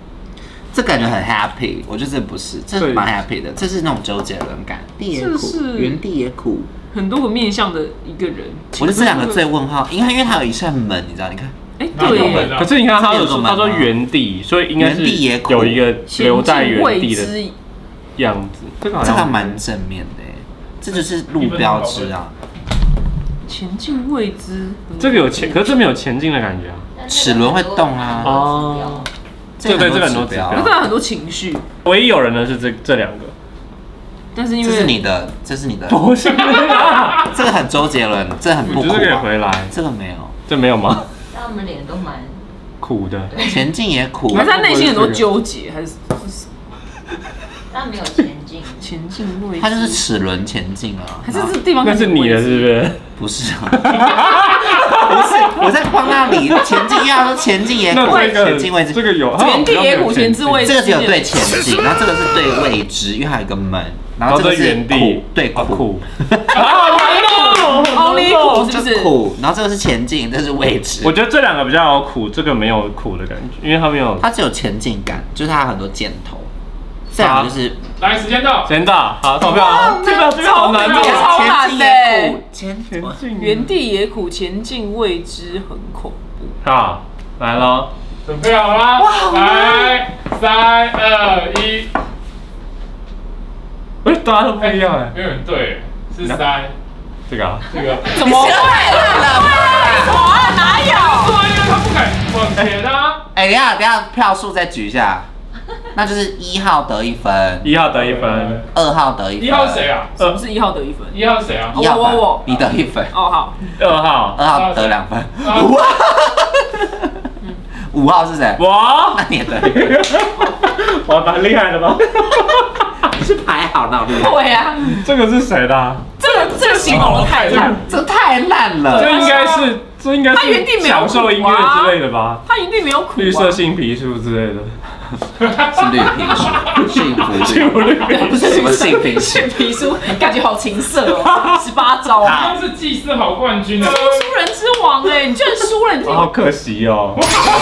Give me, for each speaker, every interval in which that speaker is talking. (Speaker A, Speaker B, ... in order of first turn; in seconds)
Speaker A: 0.7-6.7, 8.8-13.9, 14.8-15.8, 19.0-22.3, 27.1-28.5, 29.6-30.8, 34.6-36.1, 37.2-40.3, 43.4-44.5, 49.6-51.5, 53.2-54.2, 54.8-59.0, 60.6-66.7, 68.6-71.2, 74.2-76.5, 77.1-77.8, 79.4-83.2, 89.0-90.0, 98.2-100.2, 103.3-105.3, 106.0-107.7, 108.7-109.9, 111.7-113.1, 114.3-117.1, 117.9-120.0, 123.1-124.5, 127.5-129.2, 135.5-139.6, 142.2-142.6
Speaker B: 2.8-3.0, 12.3-17.4, 18.2-19.6, 25.0-26.9, 28.2-29.0, 29.6-30.8, 31.8-33.3, 35.9-37.3, 38.6-39.7, 40.5-41.1, 42.8-43.3, 44.3-45.4, 51.8-53.0, 53.8-55.7, 57.9-60.7, 64.3-68.7, 71.0-74.2, 77.2-77.5, 78.7-81.2, 82.9-83.8, 86.6-87.9, 94.0-95.2, 97.3-97.7, 102.5-102.8, 107.6-108.6, 113.8-114.4, 118.6-122.9, 124.9-126.1, 127.1-127.8, 128.9-132.4, 133.2-134.8, 137.2-138.6, 141.2-141.6, 146.0-147.2
Speaker C: 5.1-6.0, 6.9-9.4, 11.8-12.6, 16.1-17.5, 23.4-25.7, 30.5-31.6, 34.3-35.0, 44.3-46.5, 48.8-50.0, 51.2-52.7, 58.0-58.4, 59.4-61.6, 66.7-69.2, 79.6-82.4, 83.3-86.5, 98.1-101.4, 110.2-113.6, 124.1-125.1, 126.2-127.8, 128.9-129.5, 130.3-133.6, 138.0-142.5, 143.8-146.3
Speaker D: 11.9-12.7, 21.4-22.1, 78.0-78.7, 80.8-81.4, 88.2-91.9, 94.6-96.7, 97.7-98.3, 100.3-103.2, 108.0-108.6, 109.4-110.1, 111.1-111.8, 114.5-115.8, 126.4-127.8, 129.2-129.7, 142.3-144.3
Speaker E: 27.0-29.1, 41.3-42.5, 43.3-43.7, 47.7-48.9